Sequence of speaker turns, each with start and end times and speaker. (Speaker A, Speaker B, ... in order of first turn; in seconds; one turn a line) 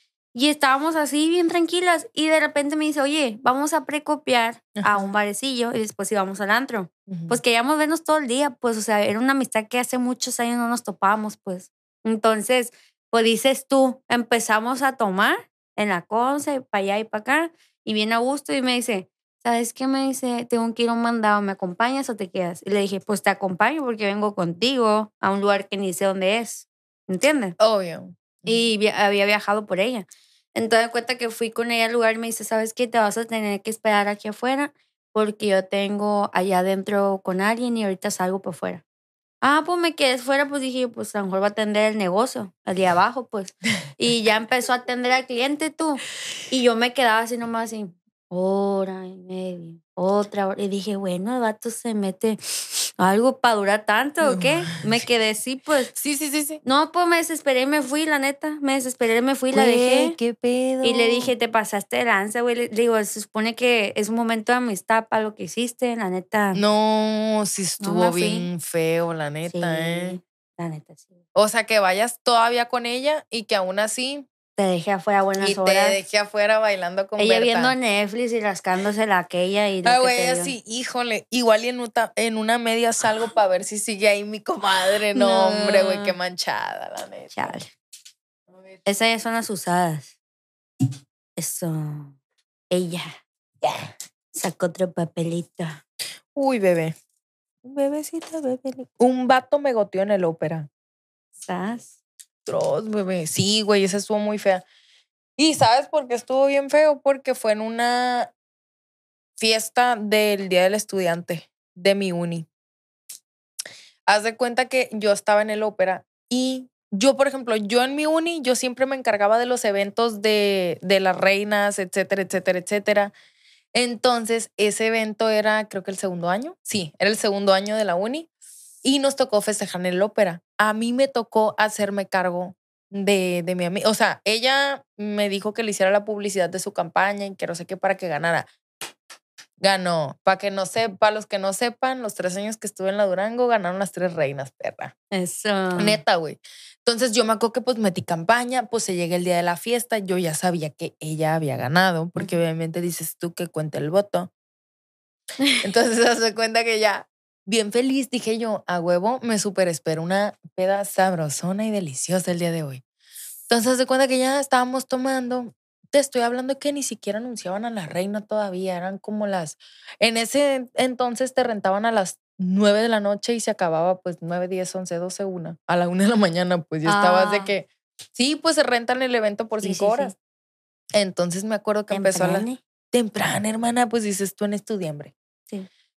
Speaker A: 0.3-27.6
Speaker B: 4.8-5.1
Speaker B: 7.1-7.4
Speaker B: 27.6-28.6
Speaker A: 28.4-38.8
Speaker A: 39.4-52.4
Speaker A: 53.0-55.9
Speaker B: 54.2-54.7
Speaker B: 55.9-56.6
Speaker A: 56.6-60.2
Speaker B: 59.5-61.3
Speaker A: 60.8-66.6
Speaker B: 66.5-70.2
Speaker A: 67.8-68.5
Speaker A: 69.5-71.2
Speaker B: 71.3-74.3
Speaker A: 74.5-76.0
Speaker B: 75.4-77.7
Speaker A: 77.2-80.5
Speaker B: 79.8-87.5
Speaker A: 85.1-86.1
Speaker A: 87.3-87.7
Speaker A: 88.8-90.1
Speaker A: 91.4-92.2
Speaker A: 92.7-93.1
Speaker B: 93.6-93.9
Speaker A: 94.3-95.8
Speaker B: 96.3-97.0
Speaker B: 97.6-100.7
Speaker A: 101.4-102.0
Speaker B: 102.5-104.6
Speaker B: 105.4-108.3
Speaker B: 109.4-112.5
Speaker B: 114.1-123.1
Speaker B: 123.7-128.3
Speaker B: 128.8-138.5
Speaker B: 139.6-144.9
Speaker A: 145.1-146.0
Speaker B: 145.8-154.3
Speaker B: 155.6-162.8
Speaker B: 163.5-180.1
Speaker A: 176.8-177.5
Speaker A: 179.6-180.1
Speaker B: 180.9-185.1
Speaker A: 181.9-182.6